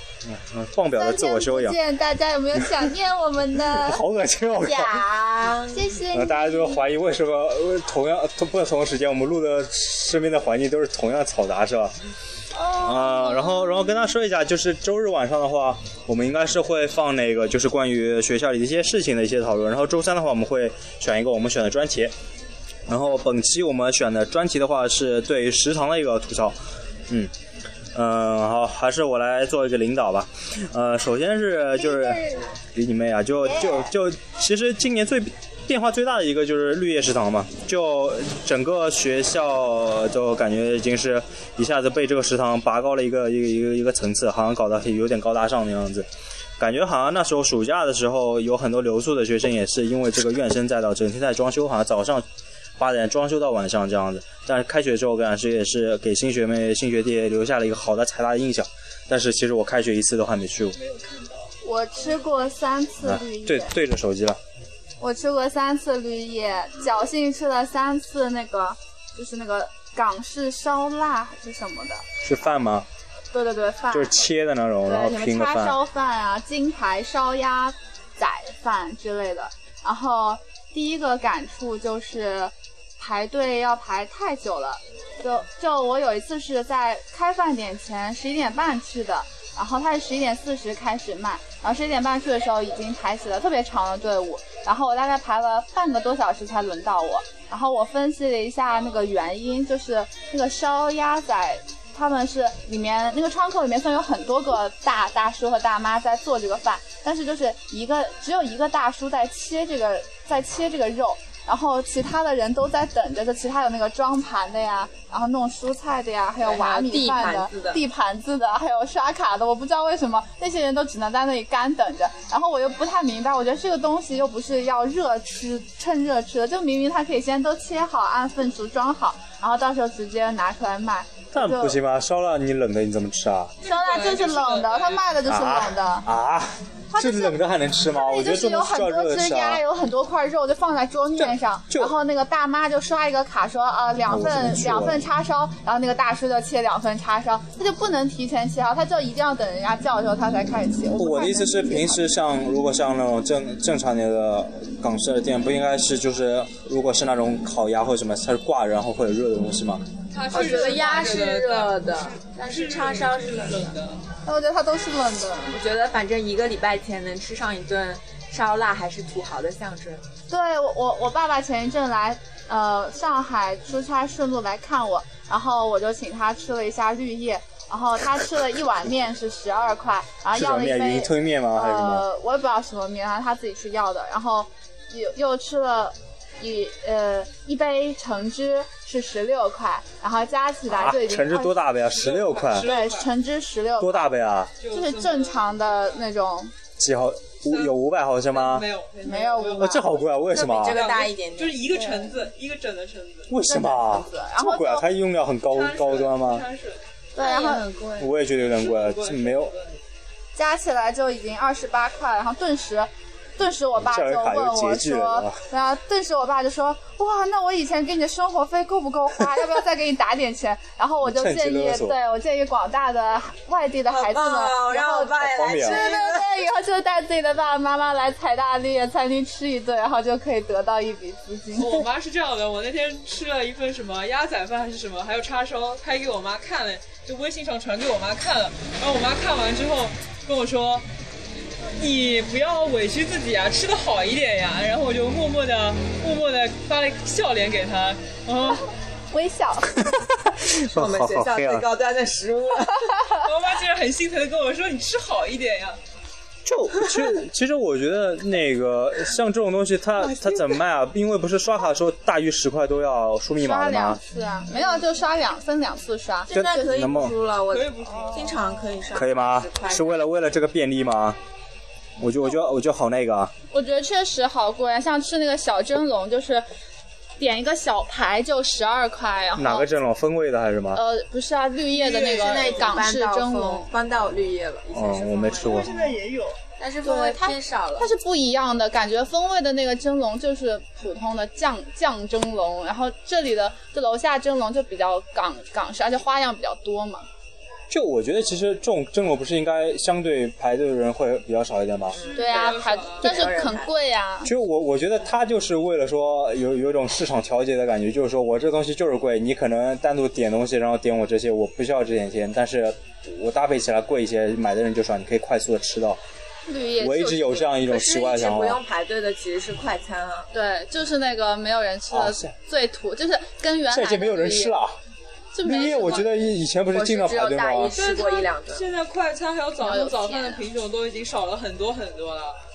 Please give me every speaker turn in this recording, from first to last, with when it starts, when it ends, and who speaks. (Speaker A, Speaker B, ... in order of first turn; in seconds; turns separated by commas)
Speaker A: 0.2-1.8, Speaker B: 1.0-4.0, Speaker A: 2.6-2.9, Speaker A: 3.6-5.1, Speaker C: 4.5-5.9, Speaker B: 5.7-6.9, Speaker A: 6.1-11.9, Speaker B: 12.6-14.1, Speaker A: 12.8-22.1, Speaker A: 22.9-26.6, Speaker A: 27.9-46.1, Speaker B: 31.9-32.4, Speaker A: 46.6-52.2, Speaker A: 52.8-60.8, Speaker D: 60.8-61.5, Speaker B: 61.6-63.7, Speaker A: 63.0-64.4, Speaker B: 65.0-72.5, Speaker A: 72.2-72.9, Speaker B: 73.3-74.2, Speaker A: 73.9-75.8, Speaker B: 74.8-131.8, Speaker C: 116.4-117.8, Speaker A: 131.3-133.5, Speaker D: 133.6-135.2, Speaker B: 133.6-136.1, Speaker A: 135.3-139.6, Speaker B: 136.9-152.2, Speaker A: 141.2-141.9, Speaker A: 144.1-145.0, Speaker A: 150.9-159.8, Speaker D: 160.1-164.0, Speaker C: 160.3-163.8, Speaker B: 164.2-165.6, Speaker C: 165.5-170.0, Speaker B: 170.3-191.6, Speaker A: 180.3-182.1, Speaker A: 190.7-192.7, Speaker D: 191.9-193.1, Speaker B: 192.6-194.1, Speaker A: 193.8-194.5, Speaker D: 194.6-195.4, Speaker B: 194.7-196.5, Speaker A: 196.8-198.7, Speaker D: 197.5-197.7, Speaker D: 198.3-203.3, Speaker B: 199.0-199.9, Speaker A: 199.6-200.8, Speaker C: 200.3-202.2, Speaker A: 203.3-206.4, Speaker B: 203.4-204.9, Speaker D: 205.5-206.8, Speaker C: 207.2-208.1, Speaker B: 207.2-207.6, Speaker A: 208.0-209.5, Speaker D: 208.4-209.8, Speaker B: 210.3-231.8, Speaker A: 213.8-215.4, Speaker A: 221.0-222.0, Speaker C: 223.9-226.3, Speaker A: 225.2-225.8, Speaker D: 231.6-240.9, Speaker D: 241.8-248.7, Speaker B: 249.1-249.9, Speaker A: 249.8-251.7, Speaker C: 250.5-252.9, Speaker D: 253.2-255.8, Speaker A: 256.4-264.0, Speaker B: 263.4-266.7, Speaker C: 266.3-270.0, Speaker A: 266.3-267.2, Speaker D: 267.5-268.7, Speaker A: 268.9-271.2, Speaker A: 272.0-273.3, Speaker B: 273.5-276.5, Speaker B: 277.2-279.7, Speaker A: 279.4-280.8, Speaker B: 280.7-283.7, Speaker D: 281.8-282.8, Speaker C: 281.9-285.7, Speaker A: 284.7-285.7, Speaker D: 285.4-286.4, Speaker C: 286.6-287.9, Speaker B: 286.8-297.1, Speaker A: 297.7-302.0, Speaker C: 301.9-303.7, Speaker D: 301.9-303.2, Speaker B: 302.1-304.3, Speaker A: 304.2-316.0, Speaker B: 316.5-317.6, Speaker A: 316.8-318.6, Speaker C: 317.6-320.3, Speaker B: 320.3-324.6, Speaker A: 321.9-322.3, Speaker A: 323.7-324.8, Speaker B: 325.3-326.4, Speaker A: 325.4-327.7, Speaker C: 326.7-328.6, Speaker D: 327.8-332.4, Speaker B: 329.6-330.4